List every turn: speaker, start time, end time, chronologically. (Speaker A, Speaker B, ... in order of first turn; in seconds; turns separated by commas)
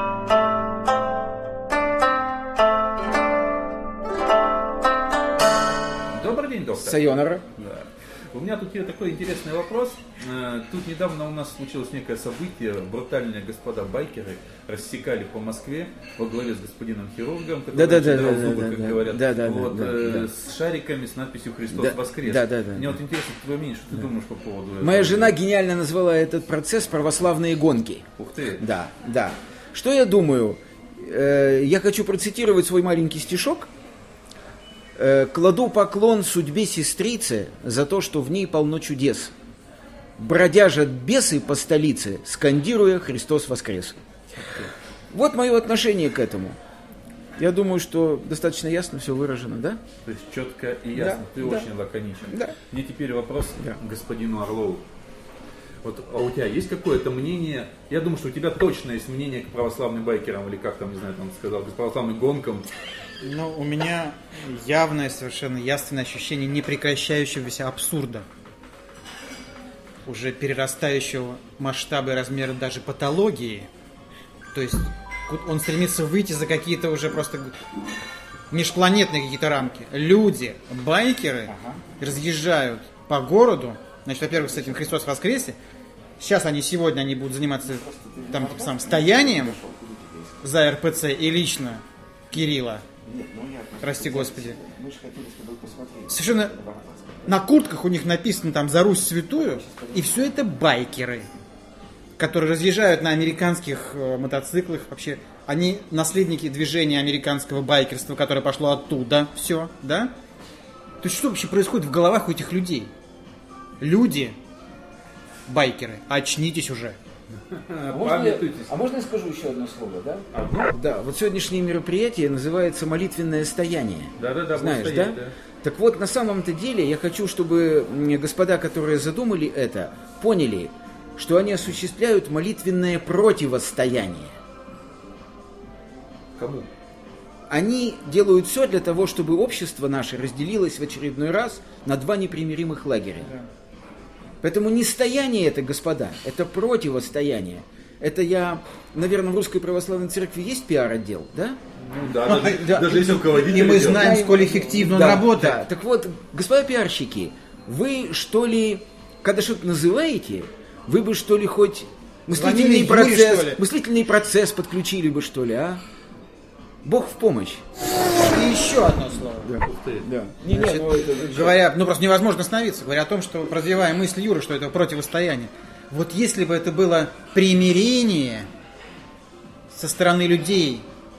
Speaker A: 6.1-7.0, Speaker B: 6.8-7.5, Speaker A: 7.5-25.4, Speaker B: 17.7-20.3, Speaker B: 21.7-23.0, Speaker B: 24.8-28.1, Speaker A: 28.2-28.6, Speaker B: 28.6-33.7, Speaker B: 35.0-39.3, Speaker B: 40.2-44.0, Speaker A: 44.4-44.7, Speaker B: 45.1-46.6, Speaker B: 47.4-49.8, Speaker A: 50.0-54.8, Speaker B: 50.9-51.7, Speaker B: 52.3-52.6, Speaker A: 55.8-62.7, Speaker C: 63.2-68.3, Speaker C: 70.0-73.7, Speaker C: 74.5-77.6, Speaker C: 78.5-85.6, Speaker B: 81.5-81.8, Speaker B: 84.5-84.8, Speaker C: 86.2-89.6, Speaker B: 87.7-90.4, Speaker C: 90.4-92.8, Speaker B: 93.0-97.4, Speaker C: 93.8-94.6, Speaker C: 96.1-96.5, Speaker C: 97.3-101.3, Speaker B: 99.3-100.3, Speaker C: 102.2-110.1, Speaker C: 111.0-112.9, Speaker C: 113.8-114.4, Speaker C: 115.5-117.0, Speaker A: 117.5-118.8, Speaker B: 117.9-134.3, Speaker A: 120.3-120.7, Speaker A: 124.2-125.3, Speaker A: 136.4-136.7, Speaker B: 137.5-143.3, Speaker B: 144.4-151.6, Speaker A: 151.8-154.2, Speaker C: 152.2-155.7, Speaker B: 153.8-165.8, Speaker C: 162.3-163.6, Speaker B: 166.8-167.6, Speaker C: 168.3-169.5, Speaker B: 169.4-171.6, Speaker A: 169.6-170.1, Speaker C: 170.5-178.5, Speaker C: 179.7-180.8